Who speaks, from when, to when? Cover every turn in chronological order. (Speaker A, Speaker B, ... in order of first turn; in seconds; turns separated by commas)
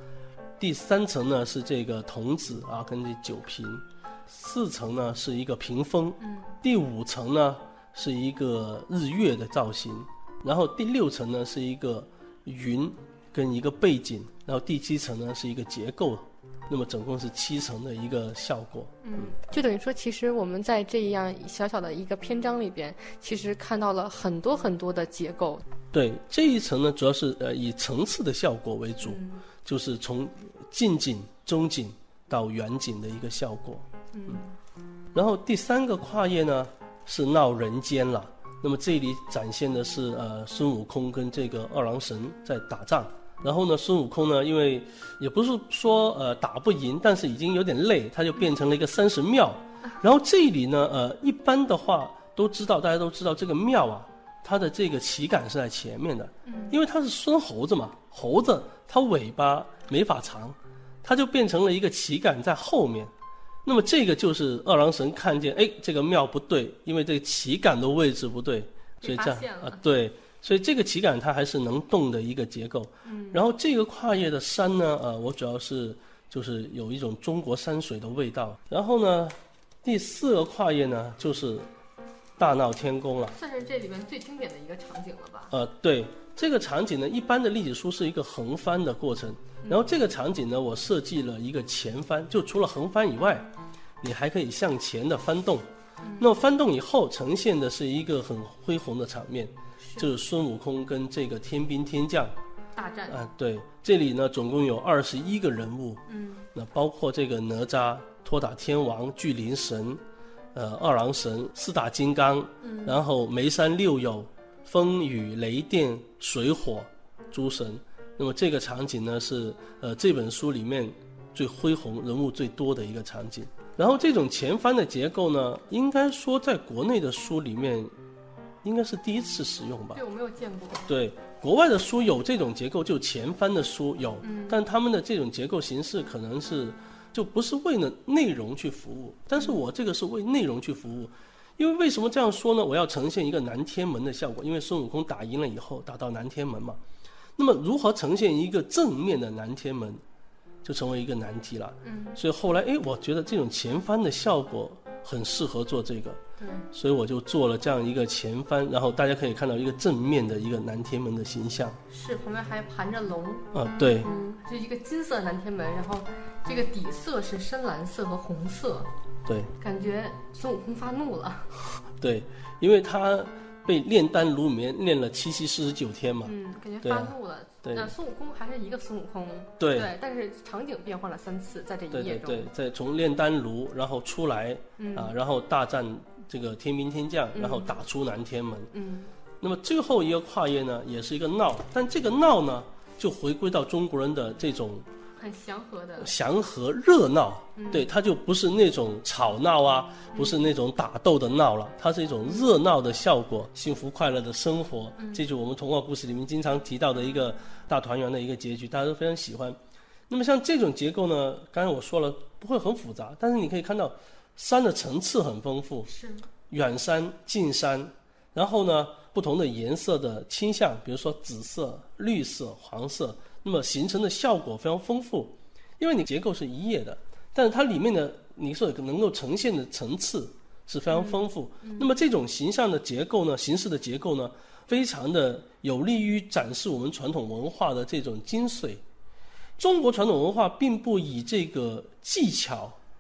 Speaker A: 0.6-19.3, Speaker B: 6.2-6.5, Speaker B: 19.0-25.6, Speaker A: 25.9-33.9, Speaker B: 29.0-29.4, Speaker B: 34.1-34.5, Speaker A: 35.1-63.1, Speaker B: 56.5-56.8, Speaker A: 63.6-81.7, Speaker B: 69.0-69.8, Speaker B: 73.0-73.4, Speaker A: 82.4-83.4, Speaker B: 83.3-85.5, Speaker A: 85.5-93.5, Speaker A: 94.0-95.7, Speaker B: 96.0-96.3, Speaker A: 96.2-102.3, Speaker B: 99.8-100.1, Speaker B: 102.8-103.2, Speaker A: 103.1-106.0, Speaker B: 106.1-106.5, Speaker A: 106.5-110.0, Speaker A: 110.5-127.9, Speaker B: 112.6-113.0, Speaker A: 128.6-130.0, Speaker B: 129.9-130.9, Speaker A: 130.9-146.8, Speaker B: 134.2-134.6, Speaker A: 147.4-150.0, Speaker A: 150.6-156.2, Speaker B: 151.8-152.2, Speaker B: 156.4-156.7, Speaker A: 156.7-161.8, Speaker B: 161.9-168.9, Speaker A: 163.5-164.1, Speaker A: 169.3-169.5, Speaker B: 169.6-171.5, Speaker A: 172.0-177.9, Speaker B: 176.2-182.5, Speaker A: 179.6-179.9, Speaker A: 181.9-188.7, Speaker B: 184.8-185.2, Speaker B: 187.4-187.7, Speaker B: 188.7-189.1, Speaker A: 189.4-194.9, Speaker B: 195.2-196.1, Speaker A: 196.0-209.6, Speaker B: 197.6-197.9, Speaker B: 200.1-200.5, Speaker B: 205.0-205.2, Speaker A: 210.1-215.9, Speaker B: 215.9-216.3, Speaker A: 216.5-238.8, Speaker B: 230.9-231.9, Speaker A: 239.6-242.8